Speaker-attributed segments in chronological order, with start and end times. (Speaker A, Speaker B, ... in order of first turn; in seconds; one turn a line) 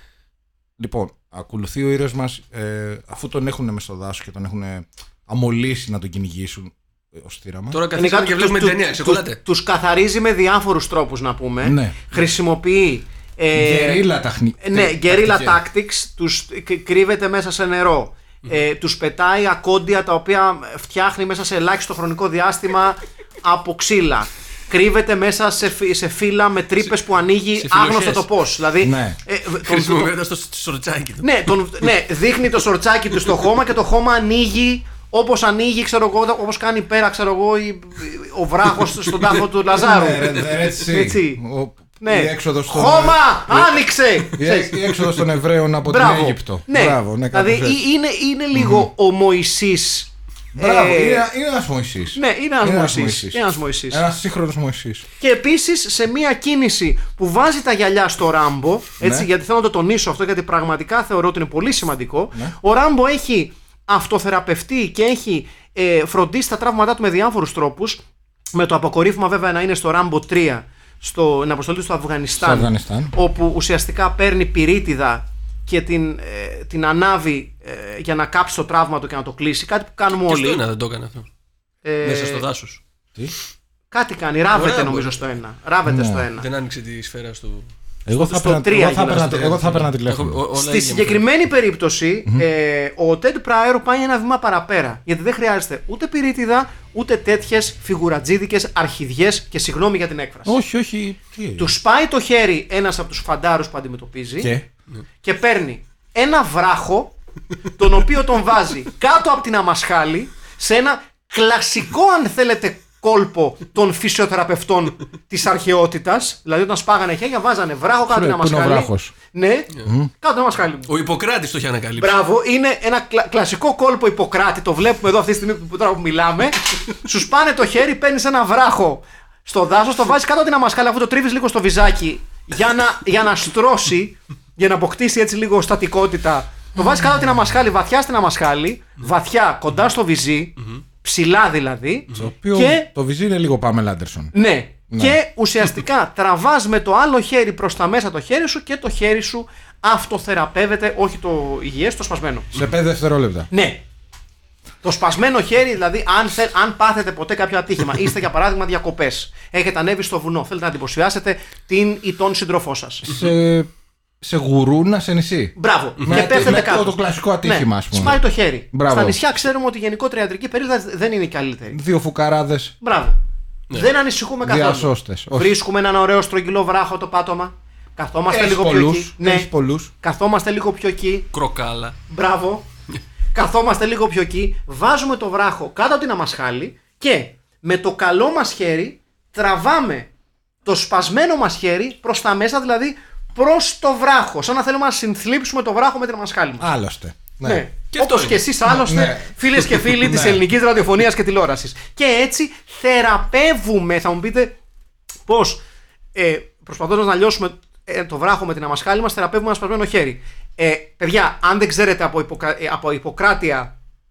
Speaker A: 0.8-7.8
Speaker B: 7.7-9.4
Speaker C: 8.0-14.1
Speaker A: 11.6-12.1
Speaker A: 13.5-15.6
Speaker C: 14.6-30.1
Speaker B: 27.6-28.3
Speaker A: 28.8-29.2
Speaker B: 29.6-31.6
Speaker C: 31.2-41.4
Speaker A: 39.7-43.7
Speaker C: 42.0-44.8
Speaker A: 44.3-47.8
Speaker C: 45.8-51.3
Speaker A: 48.5-48.9
Speaker A: 50.6-55.0
Speaker C: 52.1-54.0
Speaker C: 55.2-68.0
Speaker A: 59.0-59.3
Speaker C: 68.5-80.6
Speaker A: 72.4-73.1
Speaker B: 80.1-81.3
Speaker C: 81.8-82.4
Speaker B: 82.0-82.8
Speaker C: 83.9-86.5
Speaker B: 84.5-85.2
Speaker A: 85.8-86.3
Speaker B: 86.4-87.7
Speaker A: 88.1-90.4
Speaker C: 88.2-89.5
Speaker B: 89.1-91.3
Speaker C: 90.5-100.6
Speaker A: 100.5-101.7
Speaker C: 101.6-104.5
Speaker A: 104.4-104.7
Speaker C: 105.2-107.1
Speaker C: 107.8-120.9
Speaker A: 118.1-119.2
Speaker A: 119.8-120.1
Speaker B: 120.9-122.1
Speaker C: 122.0-142.9
Speaker A: 142.1-144.3
Speaker C: 144.3-152.6
Speaker A: 144.9-145.2
Speaker A: 152.5-153.5
Speaker C: 153.5-153.8
Speaker C: 154.8-163.1
Speaker A: 163.0-163.7
Speaker A: 164.2-168.2
Speaker C: 165.6-171.8
Speaker B: 166.0-166.4
Speaker A: 168.7-169.2
Speaker A: 171.7-172.8
Speaker C: 172.8-173.2
Speaker C: 173.7-179.5
Speaker A: 174.4-175.5
Speaker A: 178.3-179.9
Speaker C: 180.0-181.3
Speaker B: 181.3-182.0
Speaker C: 182.1-182.7
Speaker C: 183.3-190.1
Speaker C: 190.7-196.7
Speaker A: 196.6-197.6
Speaker C: 197.4-204.6
Speaker B: 197.9-198.4
Speaker A: 198.7-200.4
Speaker C: 205.3-205.6
Speaker C: 206.1-213.7